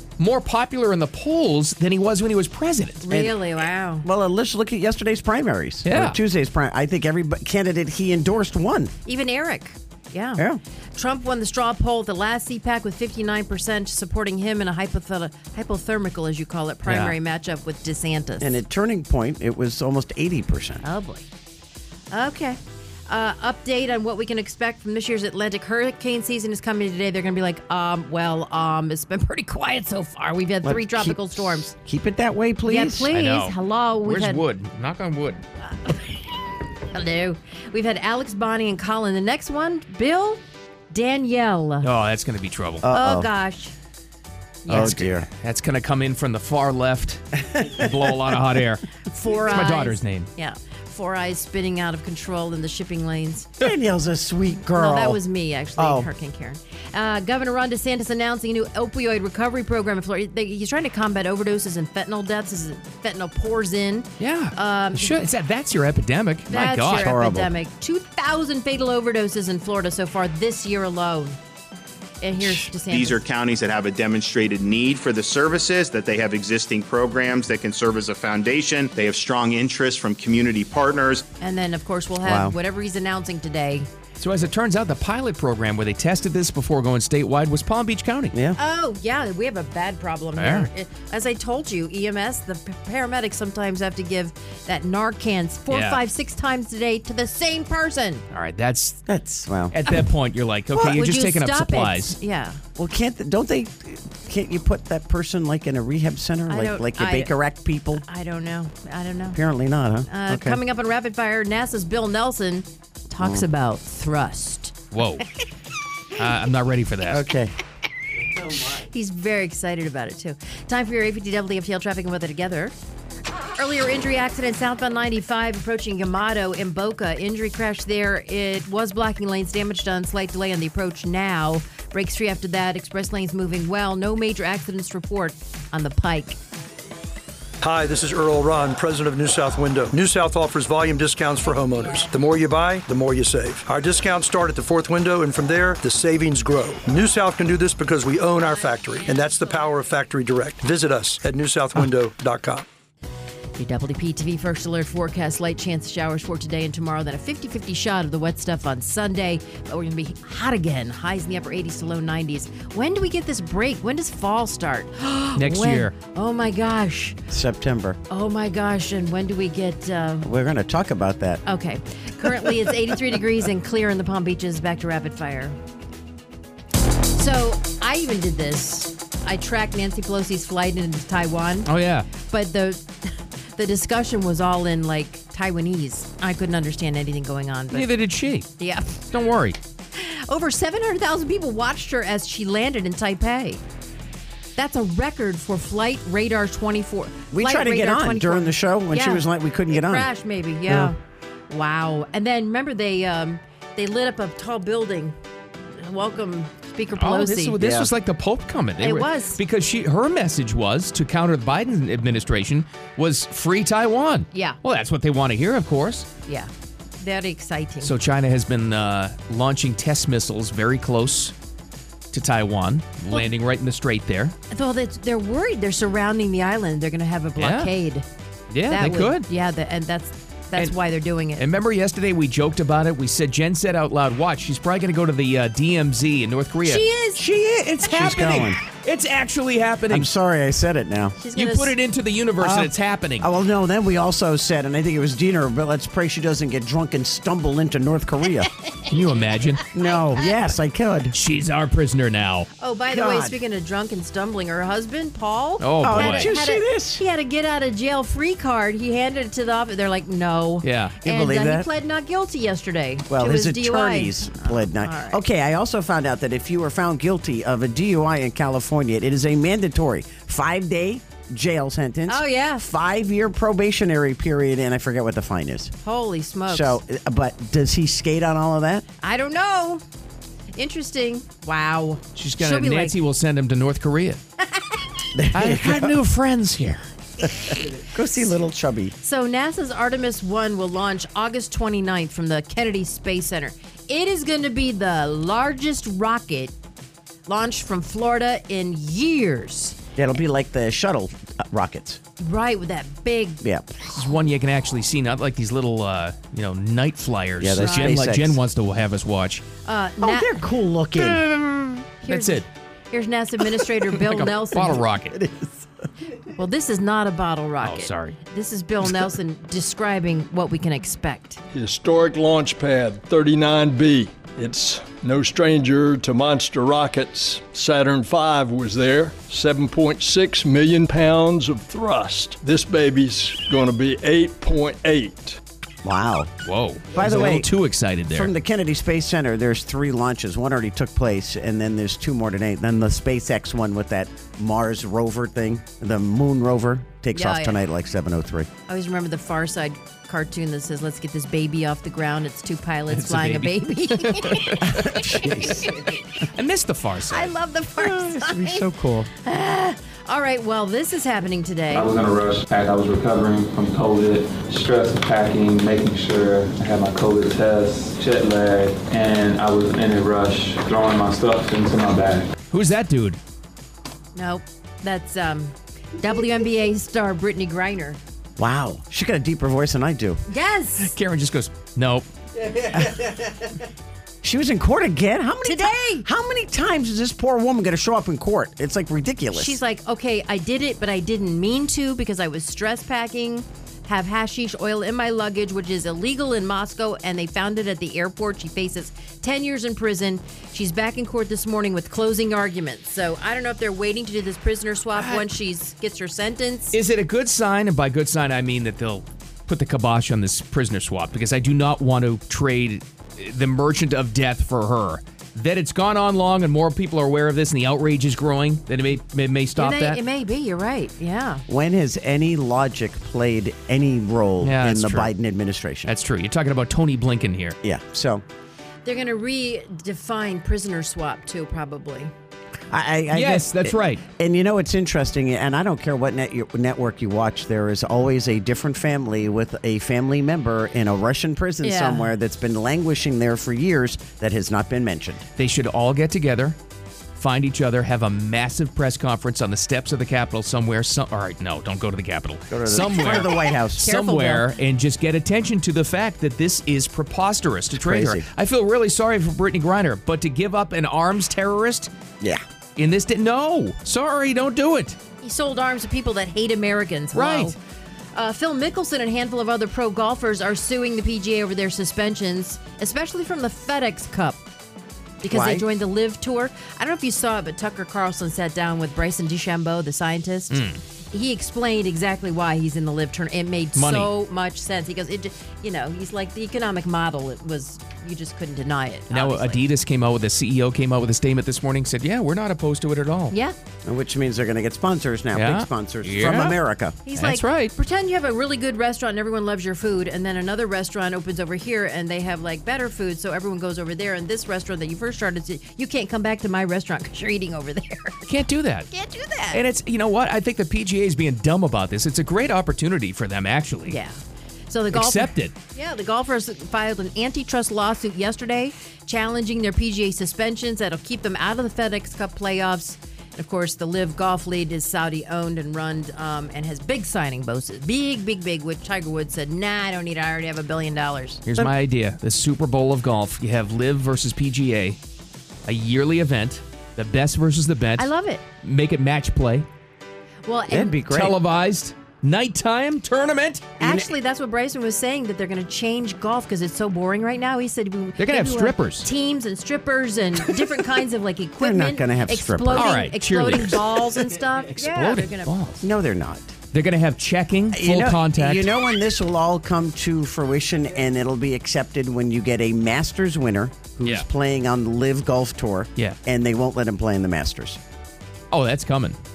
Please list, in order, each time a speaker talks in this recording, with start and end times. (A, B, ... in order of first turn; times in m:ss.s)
0:00.2-0:03.0 A
0:03.0-0:04.1 B
0:03.1-0:03.4 C
0:04.0-0:08.9 C
0:05.8-0:06.2 A
0:09.0-0:10.4 B
0:10.9-0:18.6 B
0:16.8-0:17.1 A
0:18.4-0:20.8 C
0:20.8-0:21.2 B
0:22.1-0:31.7 B
0:30.6-0:33.1 C
0:32.6-0:34.4 B
0:33.1-0:35.4 A
0:35.8-0:36.1 B
0:36.9-0:41.9 B
0:41.8-0:42.8 A
0:42.8-0:43.3 C
0:42.9-0:43.7 B
0:44.6-0:44.9 B
0:44.7-0:45.3 C
0:44.7-0:50.3 A
0:49.1-0:53.5 B
0:53.6-0:55.2 C
0:54.7-1:05.2 B
0:55.8-0:56.1 C
1:04.2-1:07.1 A
1:06.5-1:11.4 B
1:06.9-1:07.5 C
1:12.2-1:13.2 B
1:12.5-1:21.2 D
1:21.4-1:23.9 B
1:22.2-1:22.5 C
1:24.2-1:28.3 A
1:28.3-1:28.6 C
1:28.6-1:38.2 B
1:30.4-1:30.7 A
1:35.7-1:36.0 A
1:38.3-1:39.0 A
1:39.1-1:39.7 C
1:39.7-1:42.2 A
1:40.7-1:42.6 B
1:42.8-1:48.0 C
1:46.5-1:47.3 B
1:48.0-1:49.4 B
1:49.3-1:50.6 C
1:50.1-1:54.8 B
1:54.9-1:55.2 A
1:56.1-1:57.2 A
1:57.0-1:57.5 C
1:58.6-2:02.7 B
2:03.6-2:16.4 B
2:17.6-2:32.6 E
2:21.4-2:22.1 B
2:28.4-2:29.8 B
2:33.6-2:47.2 B
2:45.3-2:45.9 A
2:47.3-2:48.0 C
2:48.1-2:50.3 B
2:50.2-2:51.4 C
2:51.4-2:55.6 B
2:57.1-3:01.7 B
3:01.6-3:02.1 A
3:02.2-3:07.9 B
3:07.7-3:08.5 A
3:08.6-3:09.1 B
3:09.1-3:09.6 A
3:09.9-3:13.6 B
3:14.6-3:21.0 B
3:17.3-3:20.1 C
3:20.6-3:20.9 C
3:21.5-3:25.2 B
3:25.8-3:27.6 B
3:27.0-3:36.1 A
3:27.6-3:27.9 C
3:28.8-3:29.4 B
3:34.3-3:34.6 B
3:36.3-3:37.9 B
3:37.8-3:41.3 A
3:42.1-3:44.3 A
3:44.5-3:48.0 B
3:47.4-3:47.7 A
3:48.5-3:49.3 A
3:48.7-3:51.4 B
3:51.3-3:56.8 A
3:56.6-3:57.2 B
3:57.2-3:58.6 C
3:57.8-4:00.1 A
3:59.9-4:01.2 C
4:01.2-4:01.7 B
4:01.3-4:03.3 A
4:02.4-4:08.5 C
4:08.9-4:09.6 A
4:09.7-4:11.2 C
4:11.1-4:12.5 A
4:12.6-4:25.2 B
4:12.9-4:13.4 C
4:15.6-4:16.3 A
4:15.8-4:17.0 C
4:20.6-4:21.0 A
4:21.0-4:21.7 C
4:23.1-4:35.7 C
4:32.1-4:32.6 B
4:35.8-4:36.8 B
4:36.5-4:38.8 C
4:39.0-4:39.8 B
4:40.5-4:43.0 B
4:42.1-4:44.2 A
4:45.1-4:45.9 C
4:45.3-4:46.8 A
4:47.2-4:48.9 C
4:49.0-4:56.5 B
4:57.2-4:59.8 B
5:00.0-5:02.0 C
5:02.2-5:03.4 B
5:03.4-5:04.1 C
5:03.9-5:09.4 A
5:07.4-5:08.4 C
5:07.6-5:08.0 B
5:09.6-5:10.3 B
5:10.0-5:11.3 C
5:10.9-5:12.5 A
5:12.0-5:14.8 B
5:13.9-5:15.2 A
5:15.1-5:15.6 C
5:16.3-5:21.4 B
5:17.6-5:18.2 A
5:21.5-5:35.4 F
5:35.8-5:36.3 C
5:36.4-5:38.3 A
5:36.9-5:37.5 C
5:38.1-5:48.5 C
5:47.1-5:47.6 B
5:48.7-5:55.9 B
5:52.9-5:57.3 A
5:54.6-5:55.7 C
5:57.1-6:01.8 B
5:57.8-5:59.1 C
6:01.7-6:12.3 G
6:12.5-6:13.2 A
6:14.1-6:18.0 B
6:18.4-6:20.2 C
6:20.3-6:20.9 B
6:20.8-6:22.1 A
6:22.7-6:23.1 C
6:24.2-6:29.6 C
6:25.4-6:26.0 B
6:29.3-6:46.8 B
6:44.9-6:45.2 A
6:46.7-7:00.0 A
6:59.6-7:01.4 B
7:01.5-7:05.9 C
7:04.4-7:05.1 A
7:05.8-7:07.6 A
7:07.6-7:08.2 C
7:08.8-7:12.1 B
7:12.7-7:25.2 C
7:13.1-7:14.0 A
7:21.6-7:22.1 B
7:25.4-7:26.6 A
7:27.2-7:41.9 A
7:32.5-7:33.8 C
7:33.8-7:34.5 B
7:37.8-7:38.2 C
7:42.8-7:45.0 A
7:45.2-7:47.6 B
7:47.1-7:47.5 A
7:48.1-7:54.4 B
7:55.2-8:09.6 B
7:55.2-7:55.6 C
8:00.5-8:00.8 A
8:03.7-8:04.1 A
8:09.1-8:13.3 A
8:13.3-8:13.6 B
8:13.8-8:17.0 C
8:15.3-8:16.6 A
8:17.0-8:28.2 B
8:17.1-8:17.7 A
8:28.2-8:28.9 A
8:28.9-8:29.6 B
8:29.5-8:34.0 A
8:33.9-8:51.4 B
8:34.9-8:35.5 A
8:51.4-8:55.0 A
8:55.6-8:58.1 A
8:58.0-8:58.4 B
8:58.6-8:59.7 A
9:00.4-9:01.0 B
9:00.7-9:01.4 C
9:01.1-9:03.7 A
9:03.8-9:04.1 C
9:03.8-9:15.5 B
9:08.2-9:09.1 A
9:11.6-9:13.0 C
9:12.7-9:15.8 A
9:15.8-9:16.5 C
9:16.7-9:18.7 A
9:17.7-9:27.8 C
9:28.5-9:29.2 A